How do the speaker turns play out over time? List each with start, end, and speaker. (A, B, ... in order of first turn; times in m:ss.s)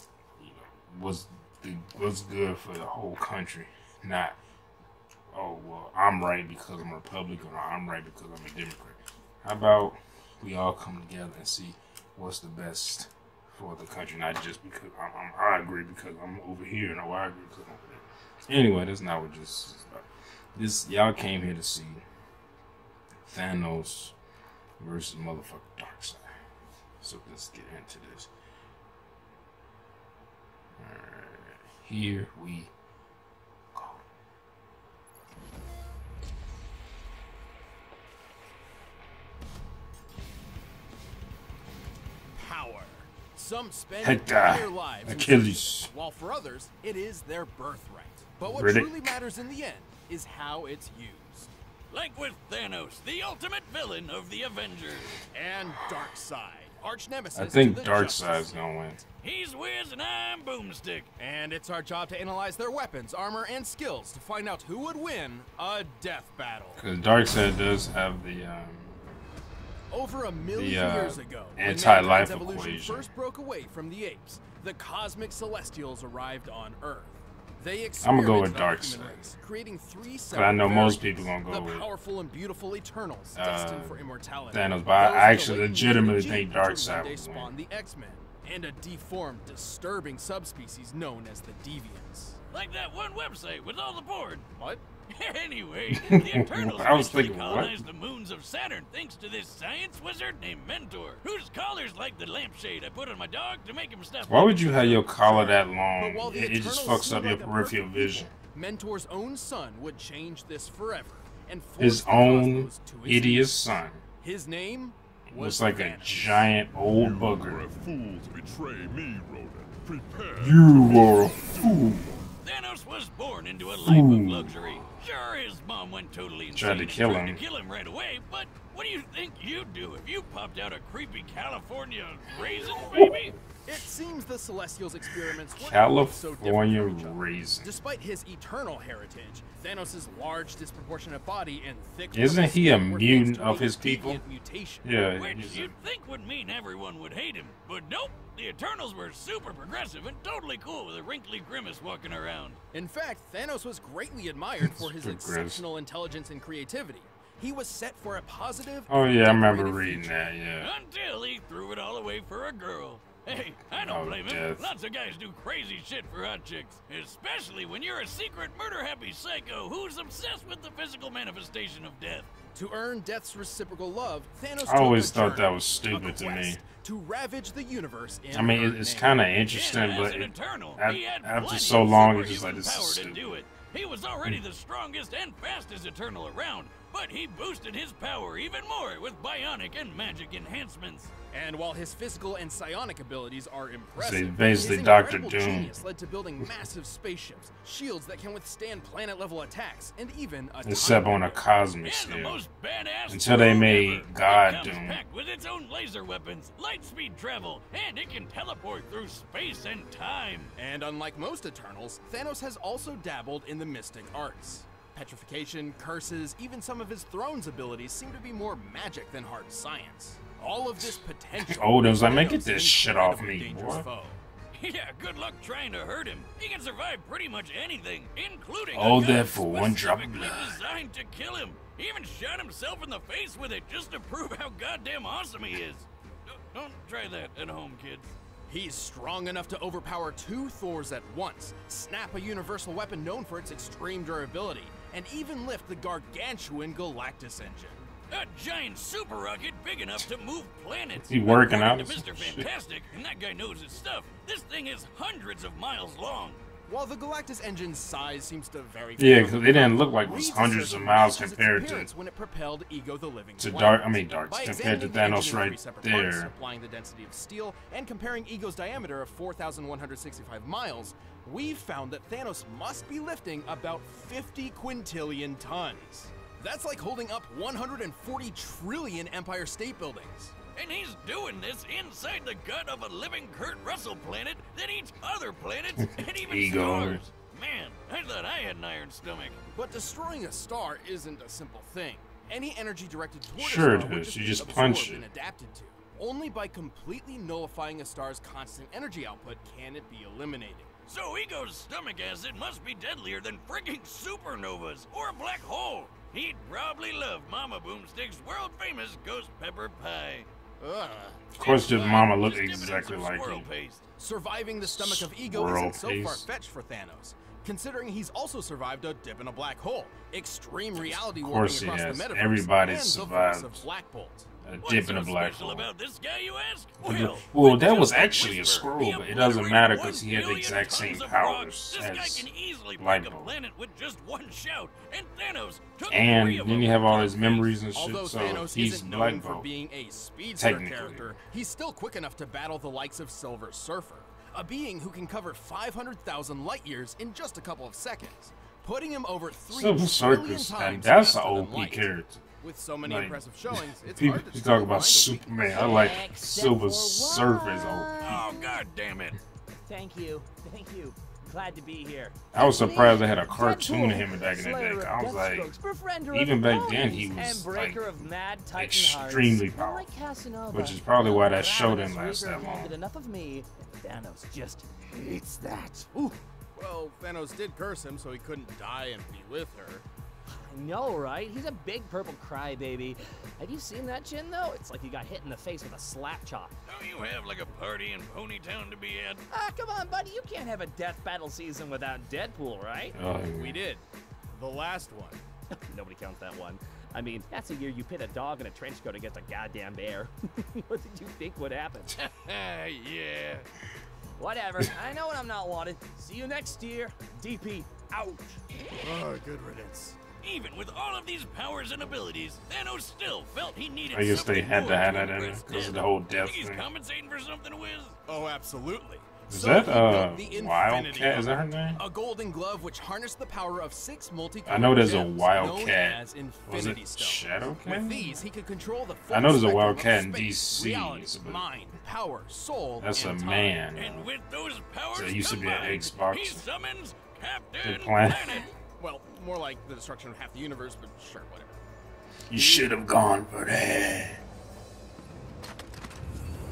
0:00.4-0:04.4 A
0:05.3-0:22.0 A
0:23.2-0:24.1 A
0:24.8-0:26.3 A
0:27.0-0:28.3 A
0:30.8-0:32.7 A
0:33.7-0:34.0 A
0:42.3-0:51.5 B
0:44.0-0:45.9 A
0:48.4-0:49.0 A
0:51.9-0:55.2 C
0:55.3-0:58.7 B
0:57.3-0:59.0 A
0:59.2-1:01.1 C
1:01.2-1:06.8 B
1:06.8-1:09.0 A
1:09.9-1:32.4 B
1:10.5-1:13.1 A
1:18.0-1:19.3 A
1:20.3-1:21.8 A
1:23.3-1:27.5 A
1:32.5-1:34.5 C
1:34.6-1:34.8 B
1:35.1-1:45.1 C
1:35.9-1:37.8 A
1:44.3-1:48.3 A
1:45.2-1:53.6 B
1:51.8-1:54.0 A
1:54.2-1:56.5 B
1:55.3-1:57.7 A
1:56.9-2:02.0 D
2:00.4-2:02.0 A
2:02.4-2:13.3 C
2:03.8-2:04.6 A
2:06.5-2:07.4 A
2:12.8-2:13.1 A
2:13.6-2:24.9 B
2:15.5-2:17.7 A
2:22.1-2:24.2 A
2:24.8-2:25.7 A
2:25.2-2:32.6 C
2:32.7-2:40.1 B
2:34.6-2:35.6 A
2:38.9-2:40.7 A
2:40.6-2:52.3 C
2:43.7-2:44.7 A
2:52.5-2:59.2 B
2:54.6-2:56.6 A
2:58.3-3:03.4 A
2:59.5-3:11.1 C
3:11.3-3:21.4 B
3:14.0-3:15.7 A
3:20.6-3:22.4 A
3:21.8-3:30.5 C
3:23.1-3:25.0 A
3:30.6-3:44.2 B
3:41.4-3:43.8 A
3:44.5-3:58.1 C
3:48.7-3:50.6 A
3:58.5-4:07.8 B
4:08.1-4:16.4 C
4:11.0-4:12.5 A
4:16.7-4:40.3 B
4:19.0-4:21.9 A
4:23.4-4:26.3 A
4:40.5-4:49.4 C
4:46.0-4:47.0 A
4:49.5-5:00.8 B
4:53.4-4:55.0 A
5:00.9-5:10.3 C
5:10.6-5:11.2 B
5:11.4-5:13.5 A
5:11.4-5:13.8 C
5:14.0-5:24.3 B
5:14.6-5:16.2 A
5:20.8-5:23.6 A
5:24.4-5:25.7 A
5:24.6-5:37.5 C
5:26.8-5:33.3 A
5:35.9-5:39.5 A
5:37.7-5:51.9 B
5:40.4-5:41.2 A
5:49.5-5:52.2 A
5:52.4-5:55.9 B
5:52.8-5:58.2 A
5:55.5-5:58.6 E
5:58.0-5:59.2 C
5:59.5-6:16.2 E
6:02.3-6:05.5 A
6:06.1-6:07.9 A
6:08.5-6:09.9 A
6:10.5-6:12.8 A
6:16.5-6:19.8 B
6:20.3-6:26.5 E
6:26.6-6:29.2 C
6:29.3-6:33.0 E
6:32.9-6:33.6 A
6:33.3-6:35.2 B
6:35.7-6:41.9 E
6:42.0-6:43.5 C
6:44.2-6:48.4 E
6:48.8-6:50.0 B
6:50.2-6:58.0 C
6:53.9-6:56.6 A
6:58.1-7:13.6 B
6:59.3-7:01.8 A
7:04.4-7:08.2 A
7:09.1-7:11.4 A
7:12.8-7:14.1 A
7:13.7-7:18.5 C
7:14.9-7:16.4 A
7:17.6-7:18.5 A
7:18.8-7:21.6 B
7:22.3-7:24.2 A